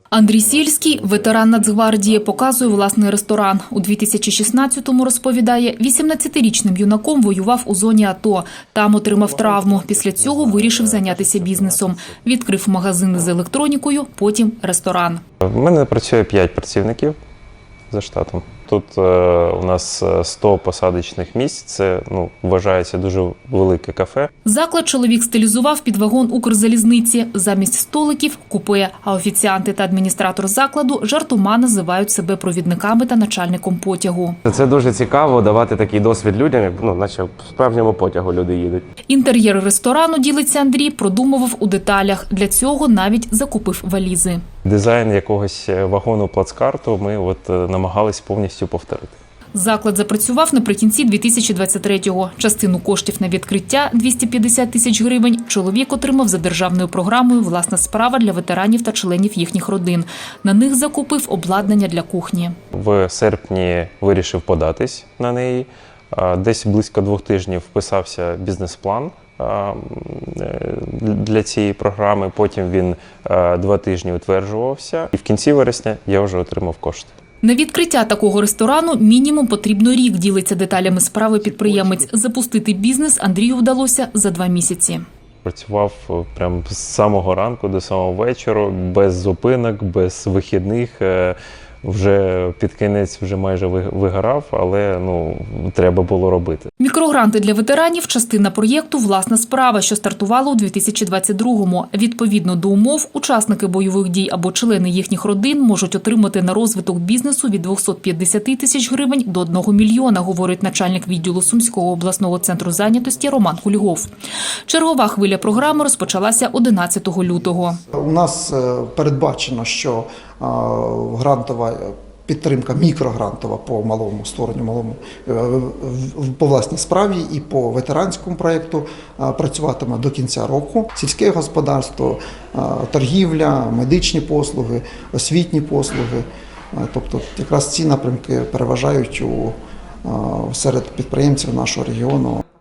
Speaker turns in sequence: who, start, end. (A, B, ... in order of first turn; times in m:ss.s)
0:00.1-0:15.2 A
0:10.2-0:11.9 B
0:15.4-0:17.2 B
0:17.9-0:24.3 B
0:24.4-0:34.4 A
0:34.5-0:38.8 C
0:39.1-0:44.4 A
0:44.6-0:49.1 B
0:49.5-1:02.6 A
1:02.7-1:17.1 B
1:17.4-1:25.0 A
1:25.4-1:36.7 B
1:36.8-1:54.1 A
1:54.7-1:57.8 A
1:57.9-2:22.4 D